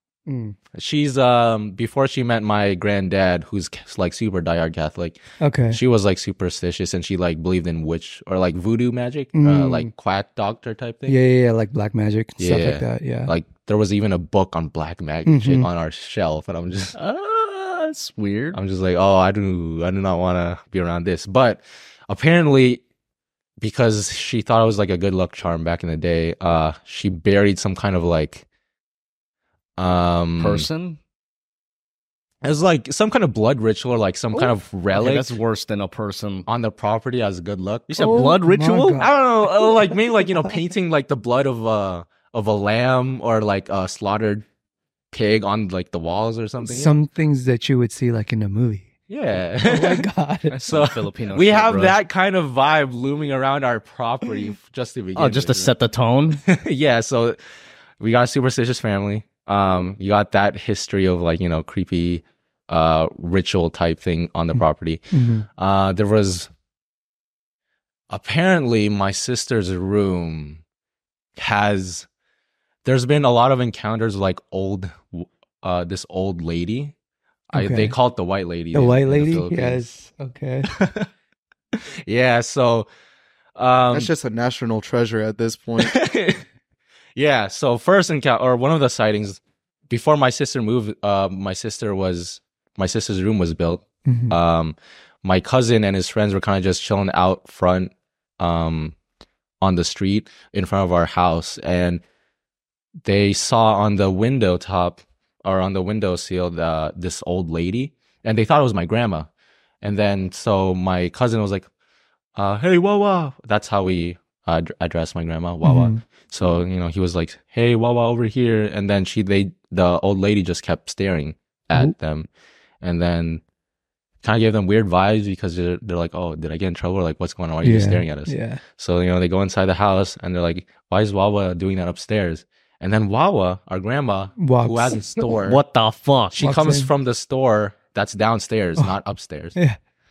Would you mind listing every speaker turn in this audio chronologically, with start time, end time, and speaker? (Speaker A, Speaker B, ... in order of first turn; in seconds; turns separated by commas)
Speaker A: 0.3-0.6, Speaker B: 0.7-5.2, Speaker A: 5.4-5.8, Speaker B: 5.7-11.2, Speaker A: 9.3-9.9, Speaker A: 11.1-13.3, Speaker B: 12.4-17.0, Speaker A: 15.2-15.7, Speaker C: 16.9-18.6, Speaker B: 18.5-22.8, Speaker B: 23.6-28.4, Speaker B: 29.8-30.7, Speaker C: 30.4-31.0, Speaker B: 32.4-35.4, Speaker C: 34.9-36.5, Speaker B: 36.5-38.4, Speaker C: 37.9-39.0, Speaker A: 38.0-40.5, Speaker B: 39.0-44.5, Speaker B: 45.1-47.0, Speaker A: 46.6-48.9, Speaker B: 49.1-55.7, Speaker A: 49.7-50.6, Speaker C: 50.5-52.0, Speaker C: 55.2-56.4, Speaker B: 56.4-57.4, Speaker B: 58.0-65.0, Speaker A: 65.1-65.5, Speaker B: 65.6-66.5, Speaker B: 68.1-70.6, Speaker B: 71.4-72.1, Speaker B: 72.8-76.9, Speaker B: 77.5-79.8, Speaker A: 77.5-78.0, Speaker A: 78.7-80.7, Speaker B: 80.7-81.1, Speaker B: 81.8-82.9, Speaker B: 83.6-84.1, Speaker D: 83.9-86.0, Speaker B: 85.8-86.5, Speaker B: 87.2-99.0, Speaker A: 94.1-94.4, Speaker B: 99.6-102.0, Speaker B: 103.0-109.3, Speaker B: 109.8-111.7, Speaker B: 112.3-122.3, Speaker A: 115.6-116.0, Speaker B: 122.8-123.4, Speaker B: 124.2-135.6, Speaker A: 127.6-128.6, Speaker A: 134.4-135.4, Speaker C: 135.4-136.4, Speaker B: 136.3-139.6, Speaker A: 136.4-136.9